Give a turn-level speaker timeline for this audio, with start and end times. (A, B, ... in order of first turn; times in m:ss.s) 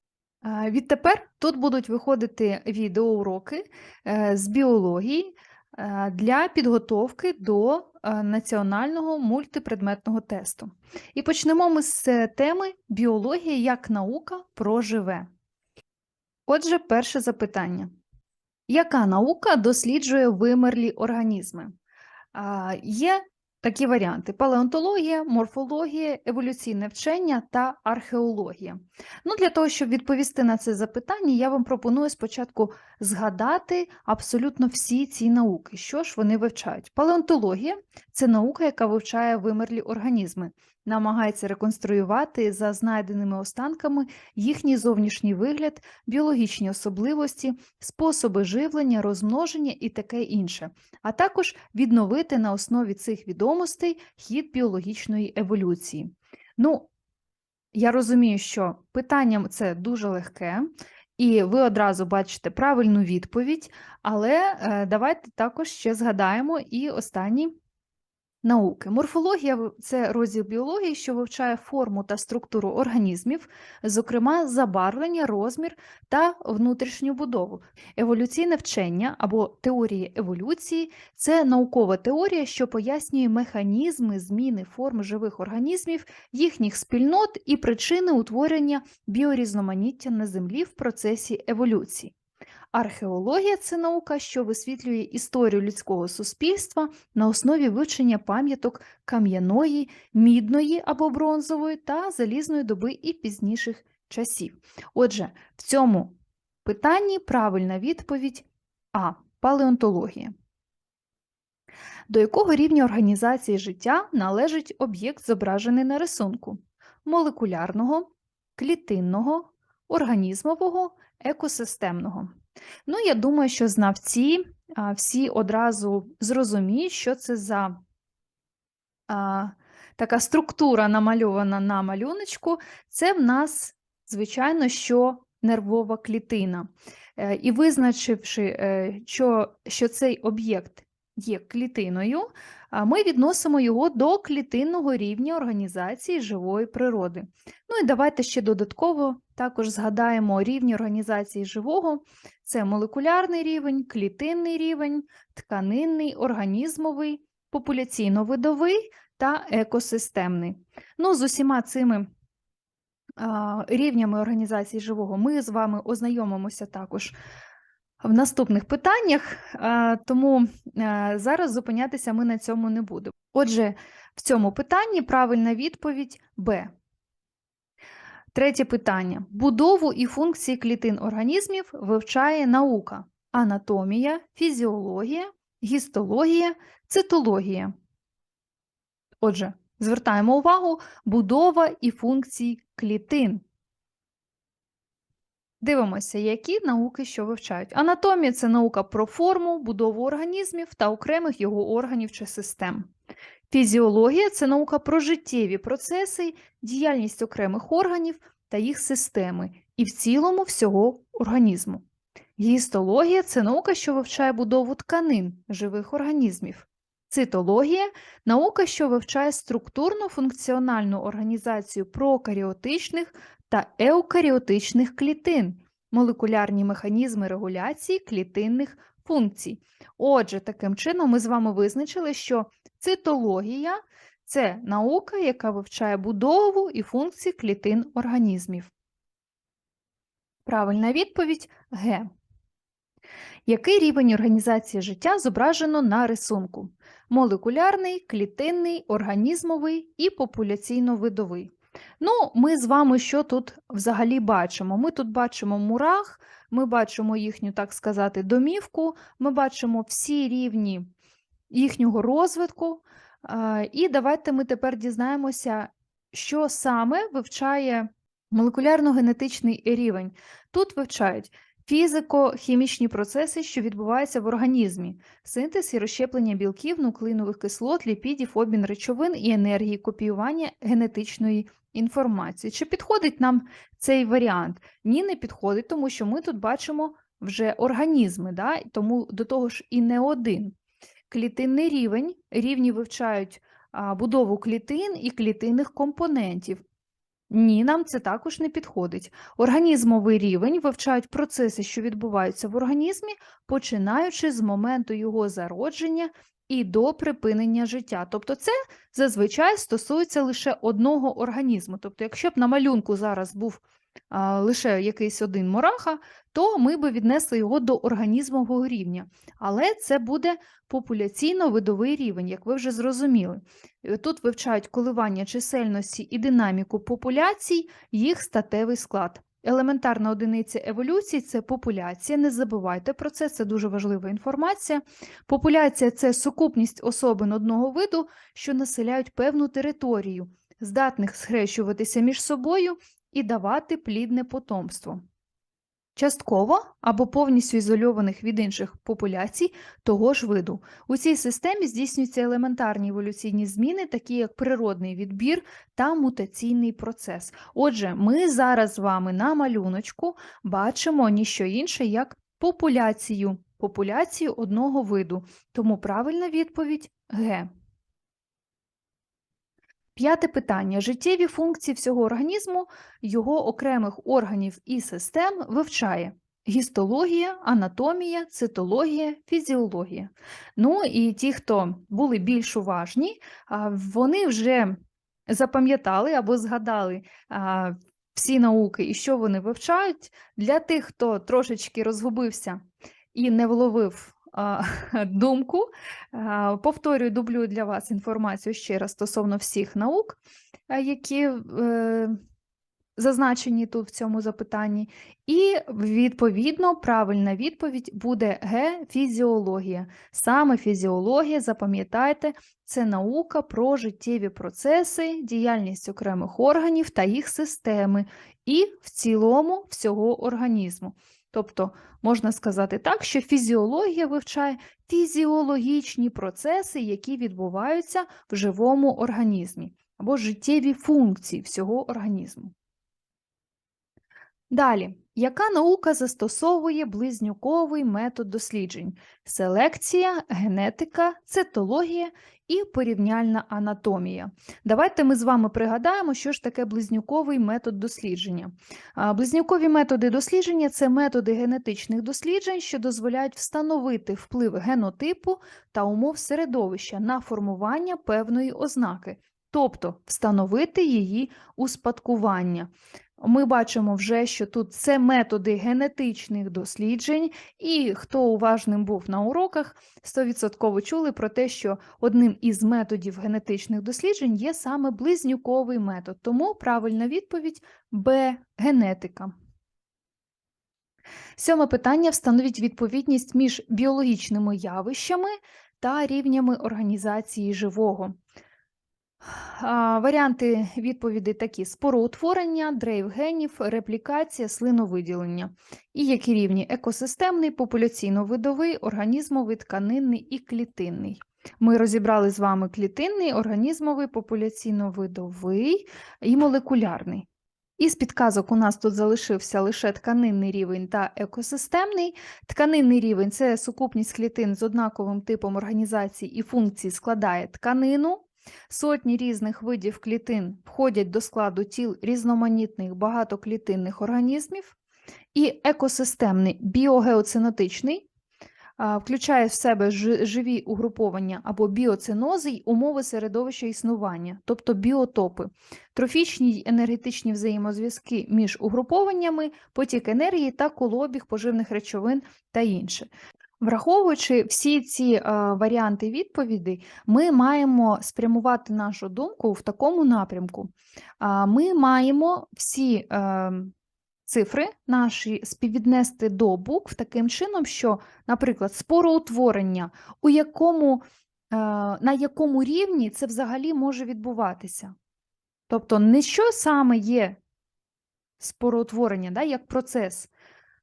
0:00.4-0:15.3 A
0:16.5-0:17.9 A
0:18.7-0:21.7 A
0:22.3-0:56.9 A
0:57.7-1:07.5 A
1:08.4-1:32.1 A
1:32.7-1:50.3 A
1:52.1-2:02.3 A
2:02.8-2:07.8 A
2:09.1-2:42.1 A
2:43.2-2:47.1 A
2:48.0-2:56.7 A
2:58.3-3:07.7 A
3:09.2-3:13.4 A
3:15.6-3:22.9 A
3:23.5-3:31.8 A
3:32.4-3:58.7 A
4:00.4-4:02.1 A
4:03.4-4:20.9 A
4:21.5-4:50.5 A
4:51.1-4:56.6 A
4:57.3-5:45.0 A
5:46.0-6:07.5 A
6:10.0-6:24.8 A
6:25.3-6:32.6 A
6:33.1-6:42.1 A
6:43.0-7:12.5 A
7:14.5-7:59.3 A
8:01.4-8:08.2 A
8:09.2-8:27.3 A
8:27.8-8:44.8 A
8:45.3-8:48.0 A
8:48.8-9:13.7 A
9:14.2-9:24.9 A
9:25.7-9:27.4 A
9:28.4-9:30.3 A